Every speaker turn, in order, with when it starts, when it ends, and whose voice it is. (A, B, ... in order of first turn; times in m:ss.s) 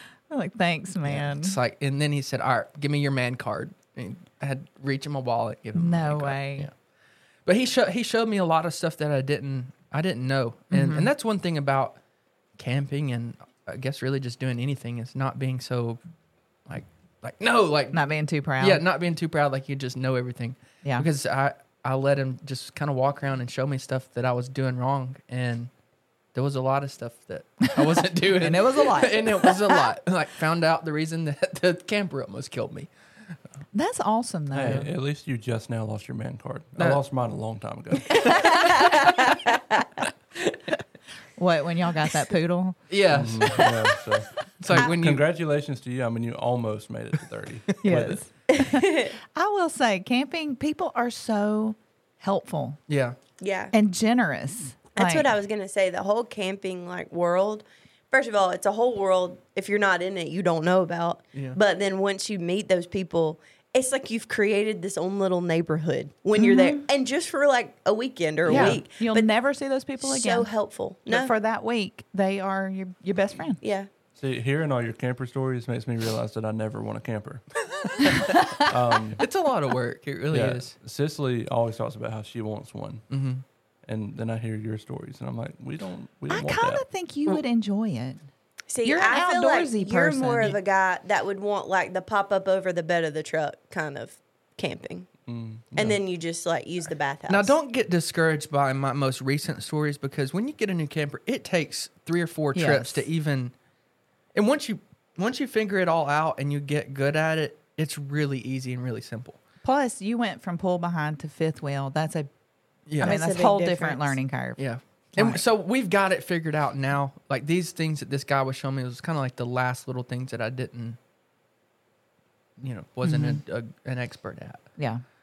0:00.3-0:01.6 A
0:01.0-0:06.7 B
0:05.8-0:06.7 A
0:07.5-0:12.0 B
0:10.7-0:11.1 A
0:12.6-0:16.0 B
0:16.7-0:18.0 B
0:17.9-0:18.8 A
0:18.6-0:25.7 B
0:26.3-0:32.9 B
0:28.3-0:29.8 A
0:33.7-0:34.9 A
0:34.5-0:38.5 C
0:36.8-0:37.0 B
0:38.2-0:39.9 D
0:41.4-0:42.8 A
0:42.9-0:43.8 B
0:43.1-0:48.2 C
0:44.6-0:45.2 B
0:47.8-0:52.8 A
0:48.5-0:49.1 D
0:52.9-0:53.2 B
0:53.4-0:53.7 D
0:53.7-0:55.3 A
0:55.0-1:09.3 D
1:06.4-1:06.8 A
1:08.4-1:10.5 A
1:08.5-1:08.8 B
1:10.0-1:11.3 D
1:11.1-1:13.6 A
1:13.6-1:13.9 D
1:14.2-1:17.4 C
1:18.0-1:18.2 B
1:18.0-1:19.2 C
1:19.2-1:20.8 B
1:20.3-1:23.0 C
1:23.1-1:23.4 B
1:23.8-1:26.8 C
1:26.3-1:28.2 A
1:28.7-1:35.1 D
1:28.8-1:30.6 A
1:35.2-1:36.0 C
1:35.8-1:37.5 D
1:37.3-1:43.5 B
1:42.6-1:43.1 A
1:44.4-1:49.4 B
1:49.6-1:52.3 A
1:52.9-1:53.2 B
1:53.0-1:54.6 A
1:53.0-1:54.2 D
1:54.6-2:01.0 B
1:55.2-1:55.4 A
2:02.6-2:04.7 B
2:03.0-2:03.4 A
2:04.8-2:05.0 A